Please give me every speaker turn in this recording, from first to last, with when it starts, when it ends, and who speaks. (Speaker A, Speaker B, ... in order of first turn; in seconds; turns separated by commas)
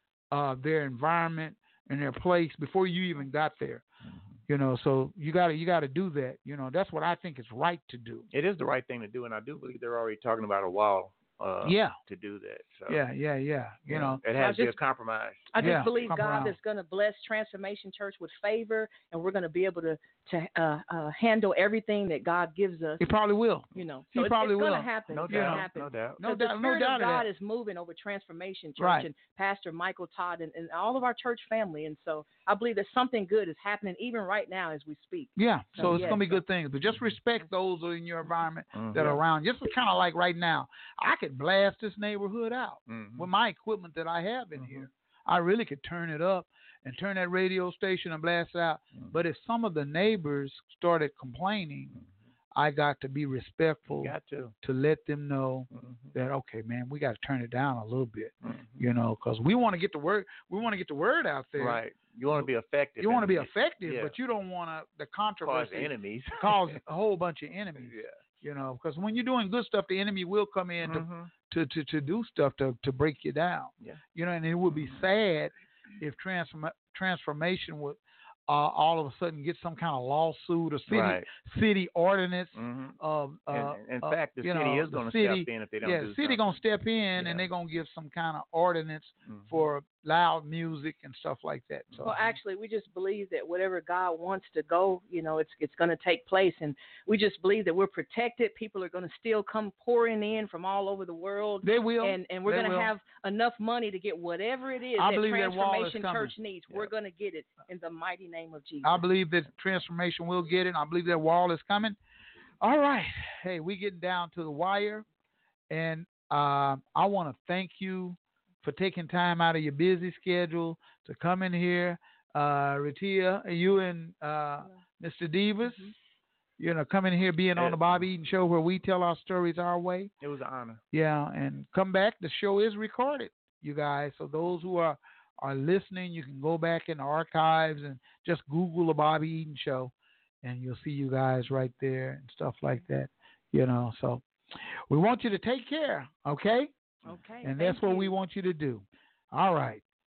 Speaker A: 0.3-3.8, Speaker B: 4.1-4.3, Speaker A: 4.5-8.3, Speaker B: 8.3-13.0, Speaker A: 11.6-12.0, Speaker A: 12.9-14.2, Speaker B: 13.9-15.9, Speaker C: 14.4-14.8, Speaker C: 15.5-23.0, Speaker A: 15.6-16.6, Speaker A: 23.0-27.3, Speaker C: 23.7-36.4, Speaker B: 25.1-26.2, Speaker A: 28.8-29.1, Speaker A: 35.4-52.0, Speaker B: 35.9-36.2, Speaker B: 38.7-39.2, Speaker B: 42.9-43.3, Speaker B: 44.6-44.8, Speaker A: 52.5-61.8, Speaker B: 53.9-54.5, Speaker B: 55.7-56.1, Speaker B: 58.4-58.8, Speaker B: 61.6-64.2, Speaker A: 62.3-92.2, Speaker B: 65.4-66.8, Speaker B: 67.8-68.1, Speaker B: 70.8-71.3, Speaker B: 80.9-81.3, Speaker B: 82.5-83.0, Speaker B: 83.5-86.6, Speaker B: 87.2-87.5, Speaker B: 89.2-89.6, Speaker B: 91.9-92.2, Speaker C: 92.0-109.0, Speaker A: 101.6-102.9, Speaker A: 104.9-106.3, Speaker A: 108.8-112.0, Speaker A: 112.6-115.0, Speaker A: 115.7-125.9, Speaker A: 126.6-130.1, Speaker B: 127.5-128.0, Speaker B: 130.2-130.8, Speaker A: 130.9-139.9, Speaker A: 140.4-144.2, Speaker A: 144.9-146.7, Speaker C: 147.1-148.2, Speaker A: 147.4-149.8